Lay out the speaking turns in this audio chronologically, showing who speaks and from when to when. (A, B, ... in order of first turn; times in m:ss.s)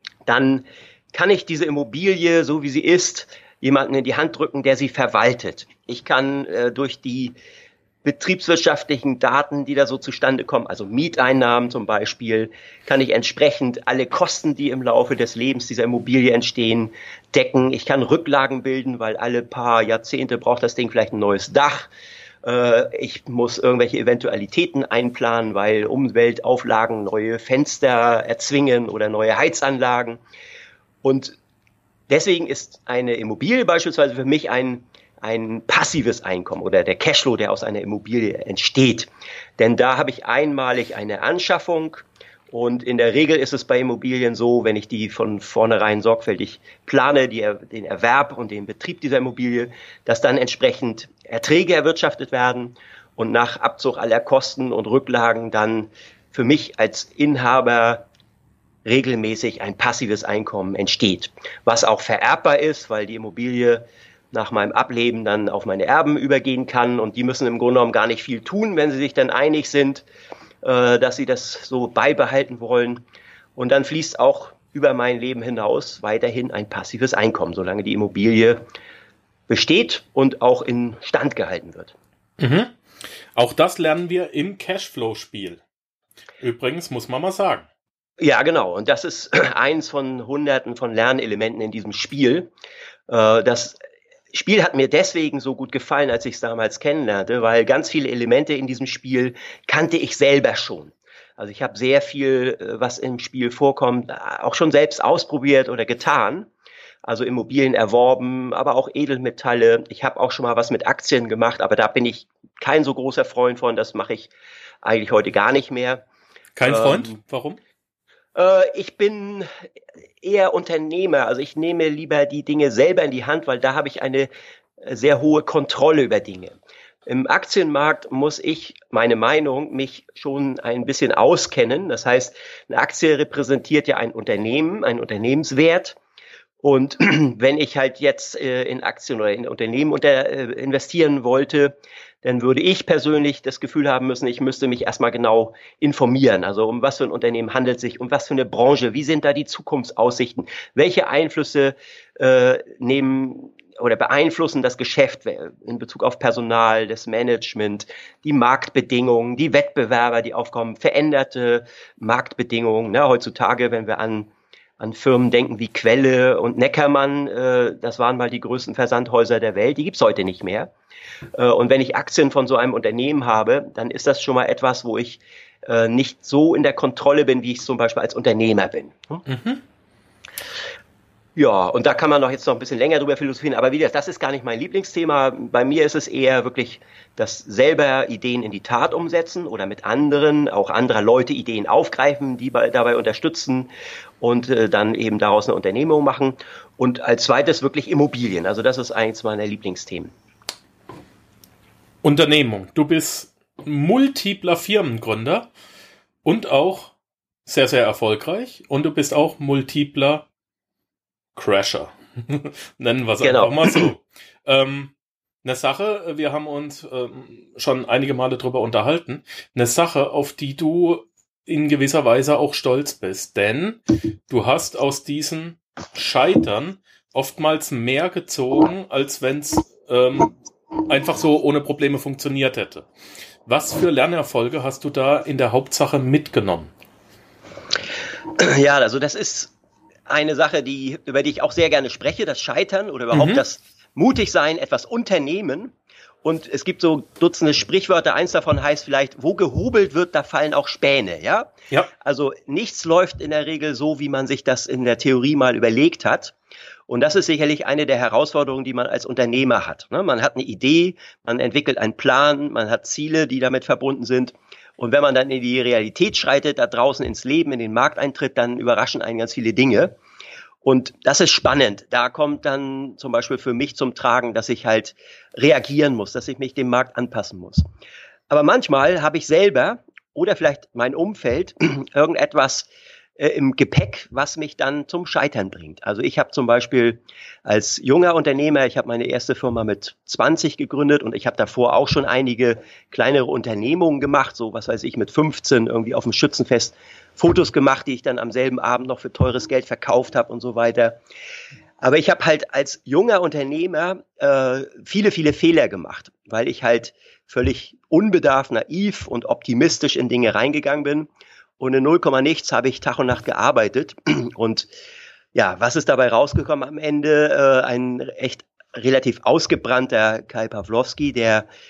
0:00.3-0:07.4 A
0:08.0-0:21.9 A
0:22.4-0:30.2 A
0:31.0-0:31.4 A
0:32.1-0:58.1 A
0:58.8-1:10.0 A
1:10.6-1:13.0 A
1:13.6-1:18.6 A
1:19.5-1:22.0 A
1:22.4-1:22.8 B
1:23.4-1:25.6 B
1:26.4-1:27.7 B
1:28.2-1:32.5 A
1:33.1-1:33.8 A
1:34.3-1:46.5 A
1:47.0-1:54.3 A
1:54.8-1:56.0 A
1:56.6-1:57.6 B
1:56.6-1:57.2 A
1:58.4-1:59.5 A
2:00.2-2:04.3 A
2:04.8-2:16.0 A
2:16.6-2:50.7 A
2:51.4-2:59.2 A
2:59.2-2:59.6 B
3:01.4-3:20.1 A
3:22.0-3:25.5 B
3:26.2-3:27.0 B
3:27.5-3:30.3 B
3:31.4-3:50.4 B
3:33.2-3:33.9 A
3:50.9-3:52.9 B
3:53.5-3:56.7 B
3:58.3-3:59.5 A
4:00.1-4:05.7 A
4:03.1-4:03.4 B
4:06.2-4:16.4 A
4:16.9-4:30.0 A
4:30.6-4:37.6 A
4:38.3-5:01.0 A
5:01.8-5:14.7 A
5:15.4-5:21.5 A